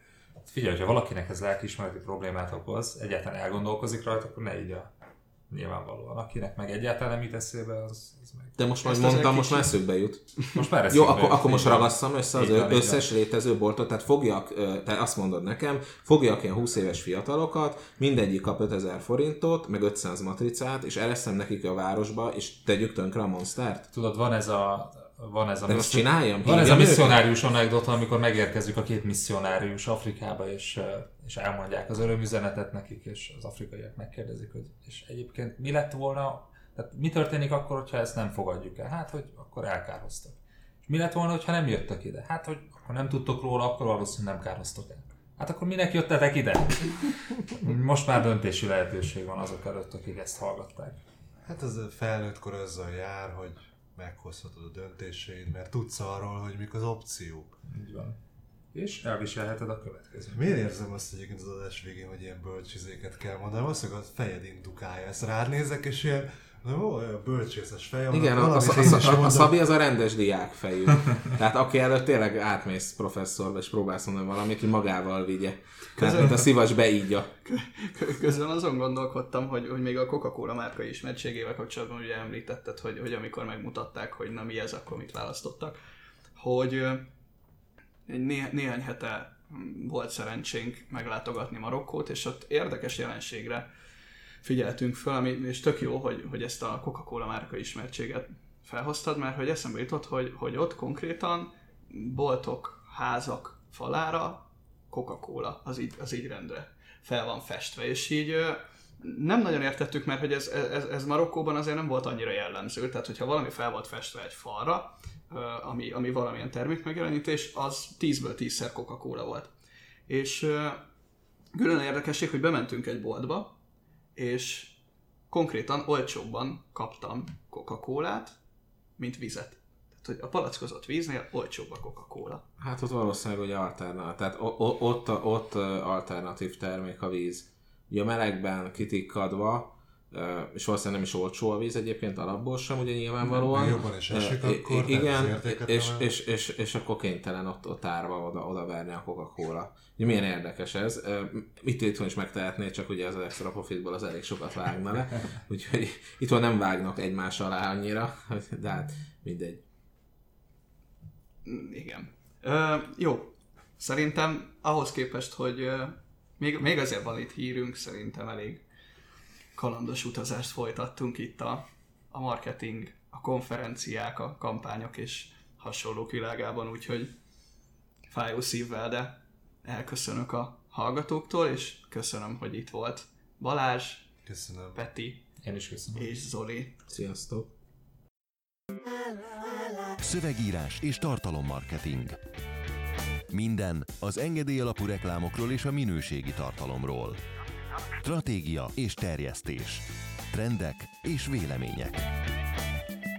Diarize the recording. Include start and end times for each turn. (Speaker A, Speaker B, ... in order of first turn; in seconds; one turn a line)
Speaker A: 0.5-4.9
Speaker A: 5.5-8.6
Speaker B: 8.6-10.2
Speaker C: 8.8-9.8
Speaker A: 10.6-13.0
Speaker B: 10.9-23.9
Speaker A: 23.9-51.0
Speaker B: 25.7-27.2
Speaker D: 51.4-57.6
Speaker A: 57.7-58.2
Speaker A: 58.7-60.4
Speaker D: 60.3-69.5
Speaker B: 68.1-77.3
Speaker C: 76.0-76.5
Speaker C: 77.5-85.8
Speaker C: 86.4-87.1
Speaker C: 88.1-93.7
Speaker C: 94.4-119.5
Speaker C: 120.1-120.8
Speaker C: 121.5-123.5
Speaker C: 124.2-124.8
Speaker C: 125.3-128.4
Speaker C: 129.0-132.4
Speaker B: 132.6-159.6
Speaker D: 143.3-146.1
Speaker C: 161.4-168.6
Speaker C: 169.6-177.1
Speaker C: 178.1-184.1
Speaker D: 184.3-184.8
Speaker C: 184.8-185.2
Speaker A: 185.4-186.1
Speaker C: 185.9-186.8
Speaker B: 186.9-187.5
Speaker E: 190.0-192.2
Speaker E: 193.3-197.2
Speaker E: 198.0-202.1